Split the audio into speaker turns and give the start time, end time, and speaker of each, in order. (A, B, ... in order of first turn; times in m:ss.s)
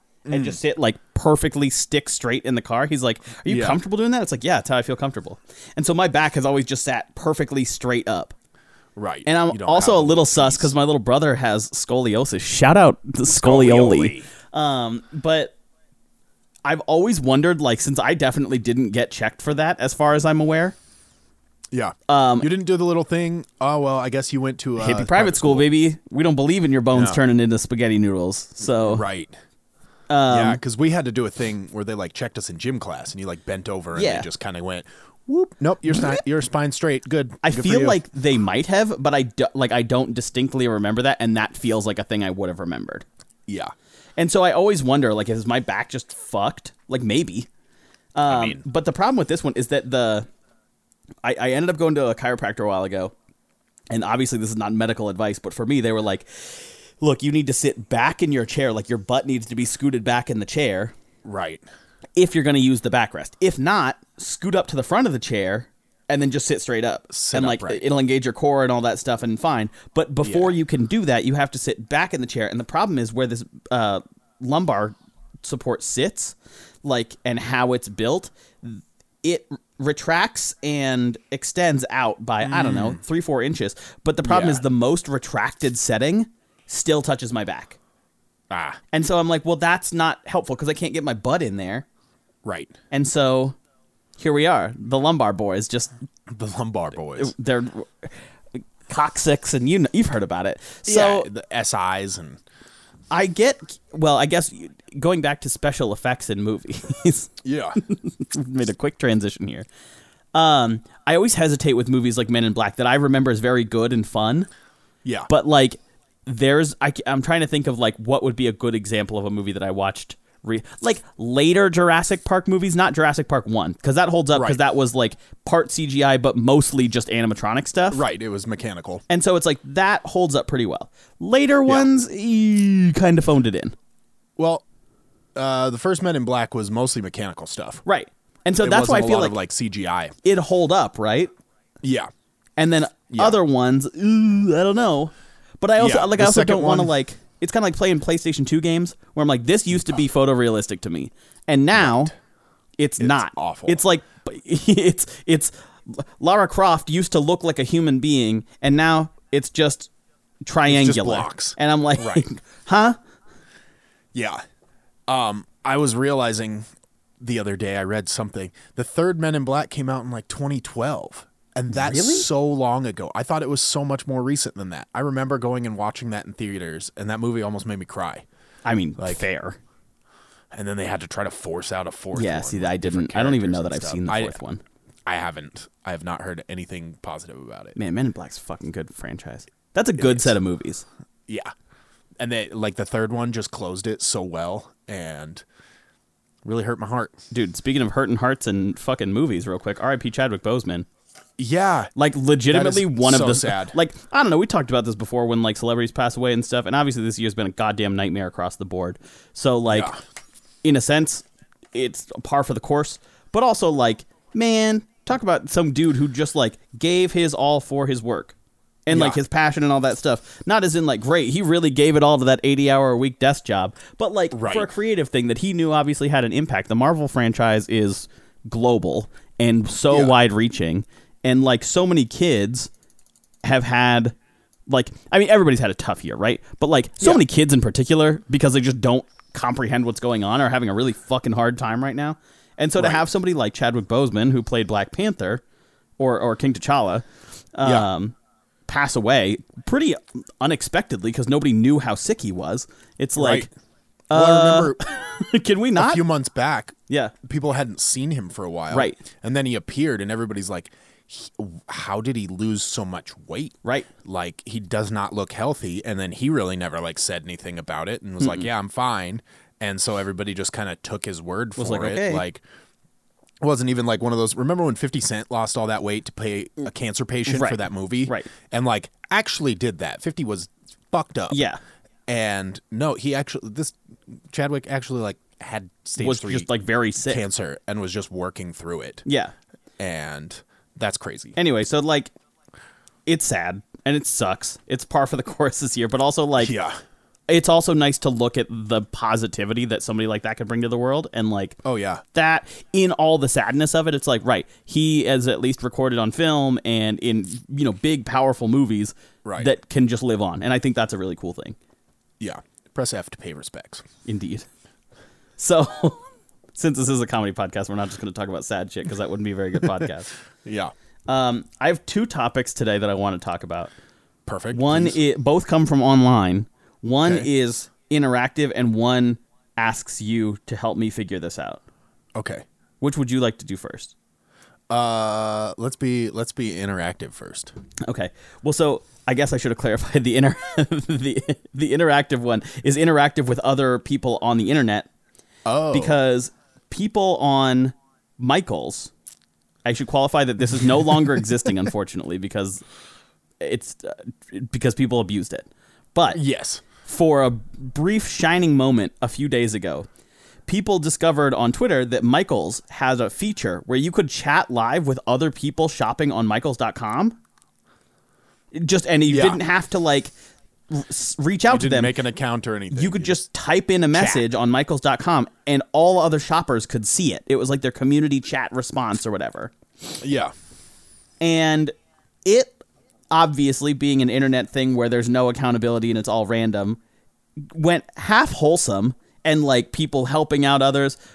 0:00.3-0:00.6 A
0:00.3-0:08.4 B
0:03.5-0:03.8 A
0:09.0-0:10.8 A
0:09.3-0:15.6 B
0:13.4-0:14.3 A
0:16.6-0:20.8 B
0:21.7-0:25.7 A
0:22.1-0:22.5 B
0:24.8-0:29.0 B
0:26.9-0:27.2 A
0:28.7-0:29.4 A
0:30.1-0:30.6 B
0:30.3-0:38.0 A
0:34.0-0:34.3 B
0:37.4-0:43.1 B
0:43.5-0:43.7 A
0:44.2-0:47.5 B
0:48.2-0:50.3 B
0:48.3-0:48.6 A
0:51.2-0:53.2 B
0:53.9-1:00.9 B
1:01.2-1:01.7 A
1:02.2-1:27.8 B
1:07.1-1:07.8 A
1:10.2-1:10.6 A
1:22.4-1:23.0 A
1:24.2-1:24.6 A
1:28.5-1:28.8 A
1:28.9-1:31.9 B
1:32.4-1:32.7 A
1:32.9-1:33.6 B
1:34.2-1:35.9 B
1:36.3-1:37.3 A
1:37.2-1:41.3 B
1:40.9-1:42.4 A
1:43.1-1:49.7 B
1:47.4-1:47.8 A
1:50.3-1:54.5 B
1:55.0-1:55.3 A
1:55.3-2:08.0 B
2:04.3-2:04.6 A
2:07.9-2:09.0 A
2:09.1-2:13.8 B
2:14.4-2:14.6 A
2:15.4-2:17.8 A
2:17.9-2:19.4 B
2:18.6-2:20.2 A
2:20.2-2:21.3 B
2:21.8-2:22.1 A
2:22.6-2:32.1 B
2:23.1-2:23.4 A
2:25.8-2:26.9 A
2:31.8-2:32.2 A
2:32.8-2:39.9 B
2:33.0-2:33.8 A
2:40.4-2:43.0 B
2:40.7-2:42.3 A
2:44.1-2:44.4 A
2:45.1-2:46.7 A
2:47.2-2:58.2 A
2:51.7-2:52.3 B
2:58.6-2:59.6 B
2:59.0-2:59.2 A
3:00.5-3:04.4 A
3:02.1-3:04.6 B
3:05.1-3:07.8 A
3:07.8-3:10.8 B
3:10.0-3:10.4 A
3:11.3-3:11.5 A
3:12.2-3:15.4 A
3:16.4-3:17.2 A
3:17.3-3:20.9 B
3:21.4-3:21.9 A
3:22.0-3:29.9 B
3:22.5-3:23.8 A
3:29.7-3:30.0 A
3:30.6-3:52.7 B
3:38.9-3:39.2 A
3:44.3-3:44.7 A
3:49.9-3:50.2 A
3:53.4-3:54.2 B
3:54.7-4:05.4 B
4:02.8-4:03.1 A
4:06.0-4:08.2 B
4:08.7-4:13.5 B
4:13.2-4:13.5 A
4:14.1-4:16.0 B
4:14.1-4:14.8 A
4:15.8-4:32.4 A
4:16.9-4:17.1 B
4:18.7-4:19.0 B
4:28.2-4:28.5 B
4:31.6-4:32.2 B
4:33.4-4:41.4 A
4:37.3-4:38.3 B
4:41.3-4:41.6 B
4:42.1-4:46.5 A
4:46.0-4:47.2 B
4:47.0-4:49.1 A
4:49.1-4:49.3 B
4:49.8-4:51.4 A
4:51.4-4:52.1 B
4:53.1-4:56.5 B
4:56.4-4:56.8 A
4:57.3-5:01.6 B
5:01.6-5:02.0 A
5:02.1-5:11.6 B
5:09.2-5:09.5 A
5:12.2-5:13.8 A
5:14.0-5:14.5 B
5:15.4-5:16.0 B
5:16.6-5:20.1 B
5:20.4-5:20.7 A
5:21.1-5:23.7 B
5:24.2-5:25.0 A
5:24.5-5:31.6 B
5:32.2-5:32.4 A
5:32.8-5:33.9 B
5:34.7-5:37.5 A
5:37.8-5:44.9 B
5:45.5-5:46.0 A
5:45.7-5:48.9 B
5:49.6-5:52.6 B
5:53.4-5:56.2 B
5:56.1-5:56.6 A
5:56.8-5:59.9 B
6:00.5-6:07.2 B
6:08.5-6:10.1 B
6:09.1-6:09.4 A
6:10.7-6:12.0 B
6:11.5-6:13.2 A
6:12.7-6:19.5 B
6:13.9-6:14.2 A
6:19.8-6:20.3 A
6:21.2-6:21.7 B
6:22.2-6:26.8 B
6:27.4-6:31.0 B